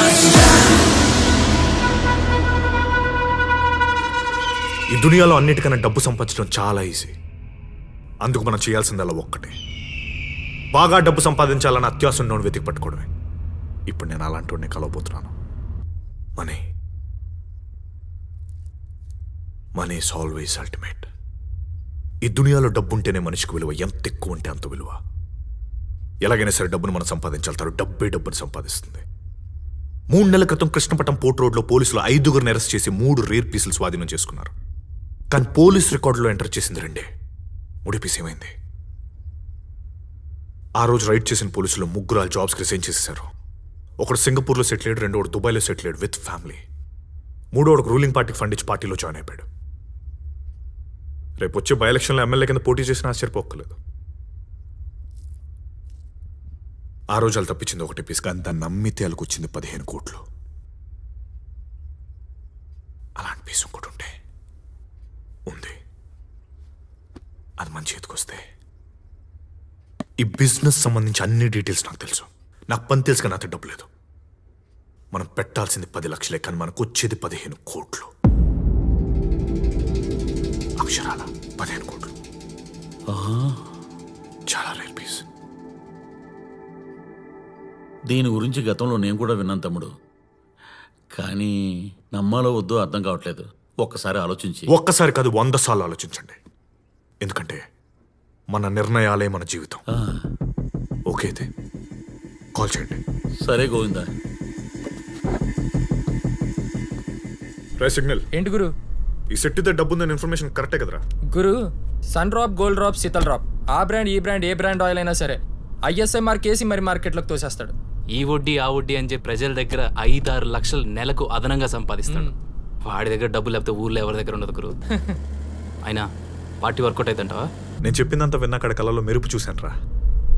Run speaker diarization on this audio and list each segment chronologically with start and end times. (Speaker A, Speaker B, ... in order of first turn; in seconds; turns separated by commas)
Speaker A: 4.9-7.1, Speaker A: 8.2-9.5, Speaker A: 10.7-13.1, Speaker A: 13.9-15.3, Speaker A: 19.8-21.1, Speaker A: 22.2-25.0, Speaker A: 26.2-29.0, Speaker A: 30.1-34.5, Speaker A: 35.3-37.0, Speaker A: 37.9-38.5, Speaker A: 40.8-43.3, Speaker A: 44.0-46.6, Speaker A: 47.5-49.5, Speaker A: 51.4-53.8, Speaker A: 57.1-60.2, Speaker A: 63.2-64.1, Speaker A: 65.5-65.8, Speaker A: 67.6-68.4, Speaker A: 70.2-73.9, Speaker A: 75.1-78.1, Speaker A: 80.8-82.1, Speaker B: 83.1-83.6, Speaker A: 84.5-85.2, Speaker B: 88.1-89.9, Speaker B: 91.2-91.5, Speaker B: 92.2-94.7, Speaker A: 94.7-96.4, Speaker A: 97.2-97.6, Speaker A: 98.5-99.8, Speaker B: 99.9-100.2, Speaker A: 101.1-101.5, Speaker A: 102.5-103.0, Speaker B: 103.4-104.1, Speaker A: 107.8-108.3, Speaker C: 108.3-108.7, Speaker A: 109.3-111.0, Speaker C: 111.3-117.7, Speaker D: 118.1-122.3, Speaker D: 122.9-124.7, Speaker D: 126.6-127.5, Speaker A: 127.8-129.8